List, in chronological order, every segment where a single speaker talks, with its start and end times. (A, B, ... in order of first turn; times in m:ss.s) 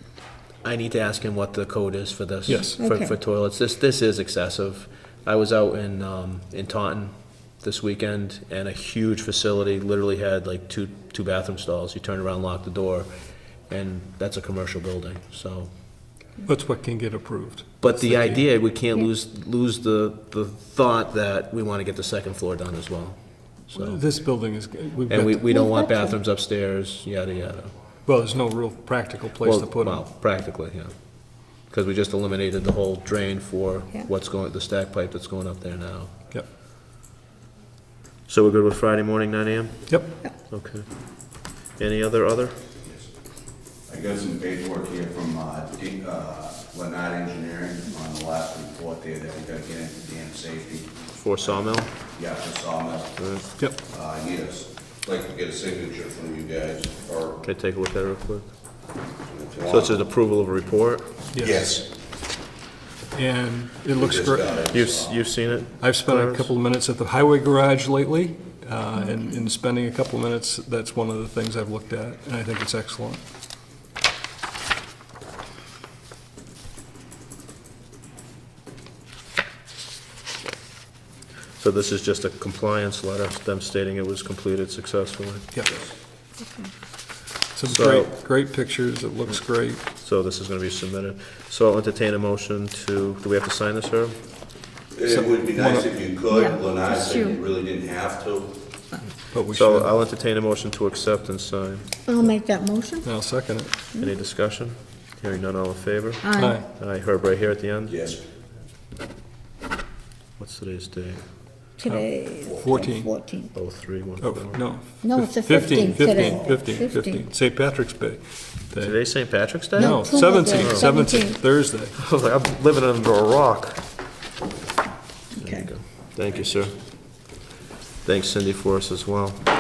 0:00.6-0:13.1 A
0:02.5-0:02.8 B
0:02.8-0:03.2 C
0:13.7-0:15.7 A
0:16.4-0:18.4 B
0:17.8-0:23.2 A
0:23.7-0:24.0 A
0:23.7-0:25.5 B
0:25.1-0:27.7 A
0:25.5-0:26.1 C
0:28.1-0:30.0 B
0:29.4-0:30.9 A
0:31.7-0:36.1 A
0:38.3-0:40.9 A
0:41.8-0:42.6 A
0:43.9-0:53.3 D
0:51.2-0:51.9 A
0:53.2-0:53.4 A
0:53.8-0:57.4 D
0:57.4-0:58.5 A
0:59.2-1:00.0 D
0:59.7-1:01.2 A
1:01.3-1:01.7 B
1:01.4-1:01.9 D
1:03.1-1:04.6 B
1:04.0-1:05.2 D
1:04.7-1:06.5 A
1:05.8-1:13.2 B
1:21.6-1:25.5 A
1:26.4-1:26.7 C
1:27.6-1:29.8 B
1:27.7-1:28.2 A
1:30.0-1:34.2 A
1:34.9-1:38.6 D
1:35.1-1:35.9 B
1:36.3-1:37.4 C
1:39.3-1:39.9 B
1:39.5-1:41.9 A
1:42.1-1:43.1 C
1:43.0-1:43.7 B
1:44.0-1:48.0 A
1:46.2-1:46.6 C
1:46.4-1:46.7 B
1:47.9-1:48.2 D
1:50.4-1:51.2 A
1:51.8-1:53.6 C
1:51.9-1:53.1 B
1:53.5-1:54.6 A
1:54.2-2:02.0 B
1:55.0-1:57.2 C
1:56.0-1:56.5 D
1:58.8-2:00.9 A
1:59.8-2:01.4 C
2:02.0-2:03.8 A
2:05.4-2:05.7 C
2:05.4-2:06.8 A
2:08.0-2:09.4 A